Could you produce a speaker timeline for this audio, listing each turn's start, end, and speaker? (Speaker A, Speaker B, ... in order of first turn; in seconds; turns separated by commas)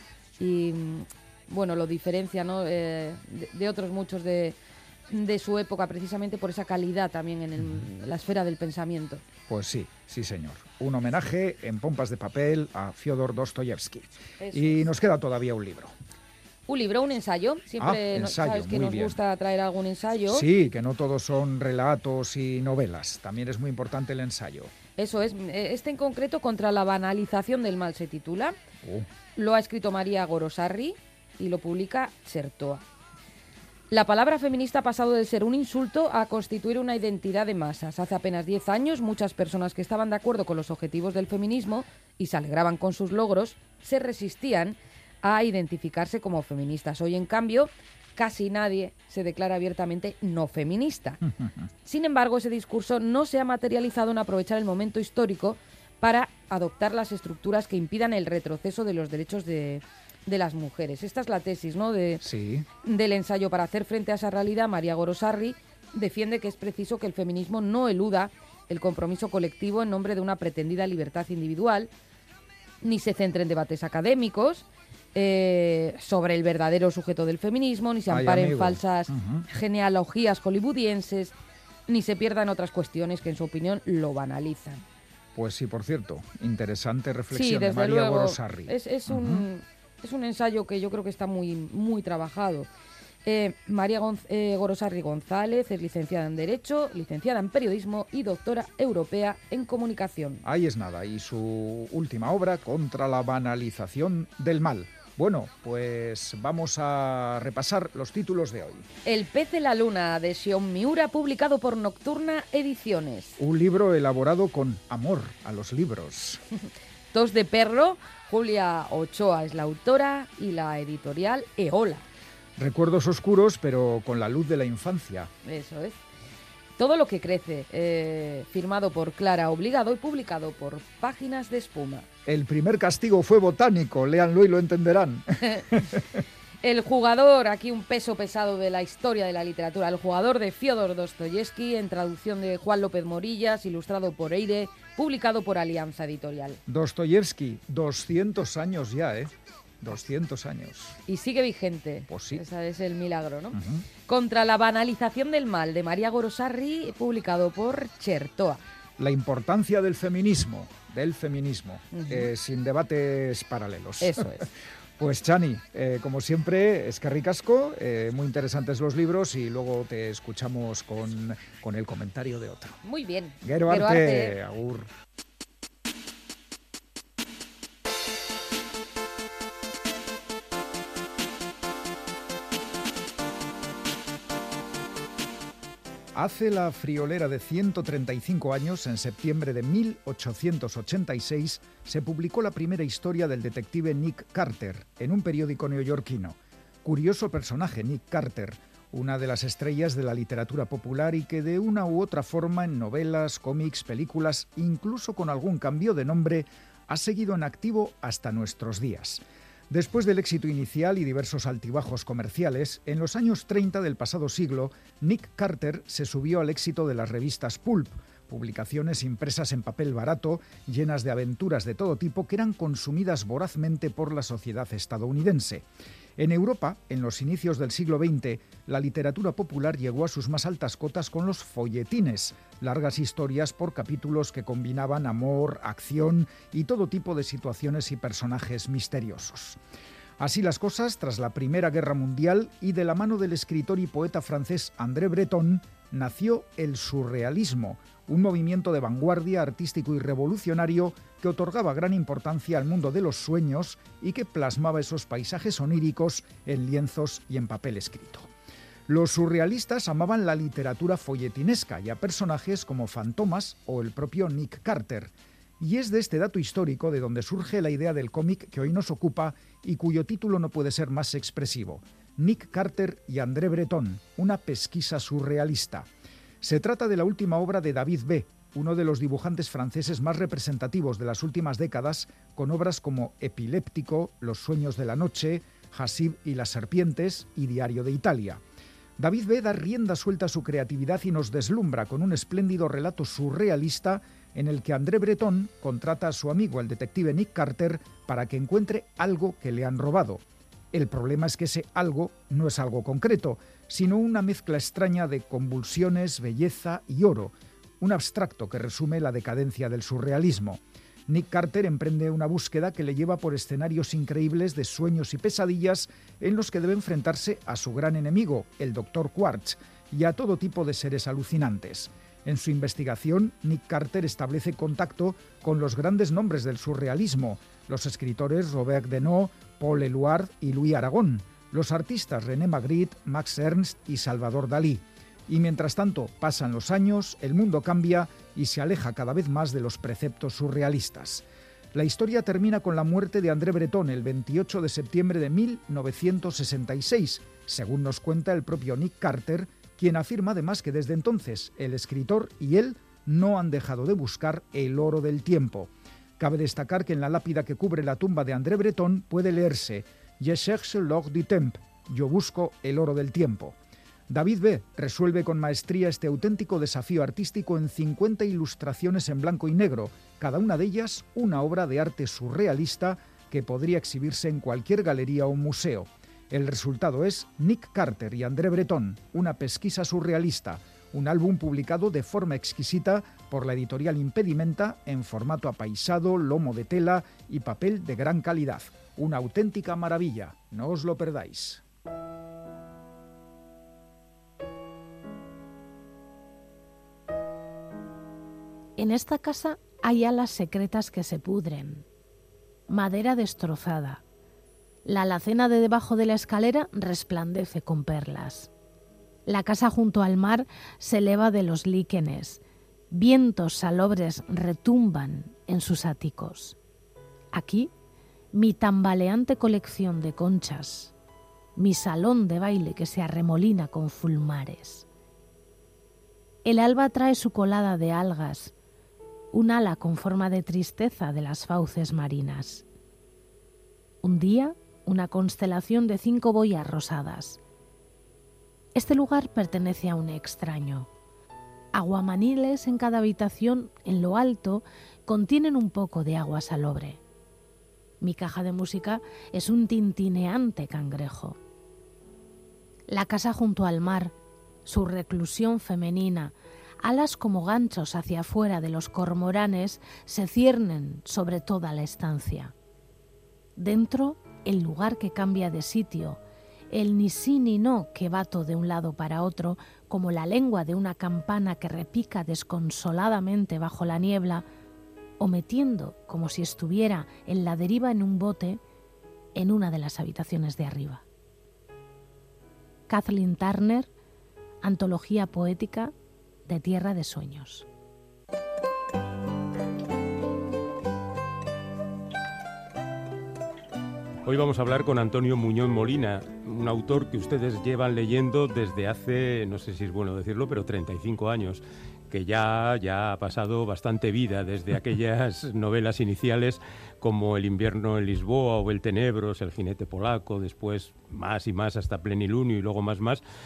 Speaker A: 0.4-4.5, Speaker A: 5.1-9.2, Speaker B: 9.5-15.9, Speaker A: 14.4-14.9, Speaker A: 16.7-20.4, Speaker B: 17.8-19.2, Speaker B: 20.3-24.7, Speaker A: 24.9-28.6, Speaker A: 29.4-32.8, Speaker A: 33.9-51.2, Speaker B: 51.2-51.7, Speaker A: 51.8-62.2, Speaker B: 62.2-62.6, Speaker A: 62.8-71.9, Speaker A: 72.8-81.3, Speaker B: 78.1-79.4, Speaker A: 81.9-84.8, Speaker B: 85.3-89.5, Speaker A: 87.3-92.7, Speaker A: 93.2-100.4, Speaker B: 100.4-108.8, Speaker A: 109.0-113.4, Speaker B: 113.4-116.4, Speaker A: 117.1-122.0, Speaker B: 122.6-125.3, Speaker A: 125.4-126.0, Speaker A: 126.8-132.1, Speaker B: 132.2-136.2, Speaker A: 135.4-135.7, Speaker A: 136.6-146.6, Speaker B: 146.7-151.0, Speaker A: 151.1-158.6, Speaker B: 152.1-152.4, Speaker B: 153.5-153.8, Speaker B: 159.0-172.8, Speaker A: 161.9-162.3, Speaker A: 164.0-164.5, Speaker A: 172.8-174.4, Speaker B: 173.4-174.9, Speaker B: 186.1-225.7, Speaker B: 226.2-239.6, Speaker B: 240.2-258.3, Speaker B: 258.9-275.9, Speaker B: 276.4-288.4, Speaker B: 289.0-363.6, Speaker B: 364.1-391.6, Speaker C: 398.8-401.8, Speaker C: 402.7-404.0, Speaker C: 404.8-408.5, Speaker C: 409.3-416.6, Speaker C: 417.3-417.7, Speaker C: 418.3-420.9, Speaker C: 421.6-424.9, Speaker C: 426.4-428.5, Speaker C: 429.3-432.6, Speaker C: 434.0-437.4, Speaker C: 438.7-440.9, Speaker C: 441.7-447.0, Speaker C: 448.0-451.4, Speaker C: 452.9-454.1, Speaker C: 454.6-462.5, Speaker C: 463.6-466.2, Speaker C: 466.7-474.4, Speaker C: 475.2-478.6, Speaker C: 479.3-481.0, Speaker C: 482.9-483.9, Speaker C: 484.6-485.9, Speaker C: 486.5-487.6, Speaker D: 494.2-513.2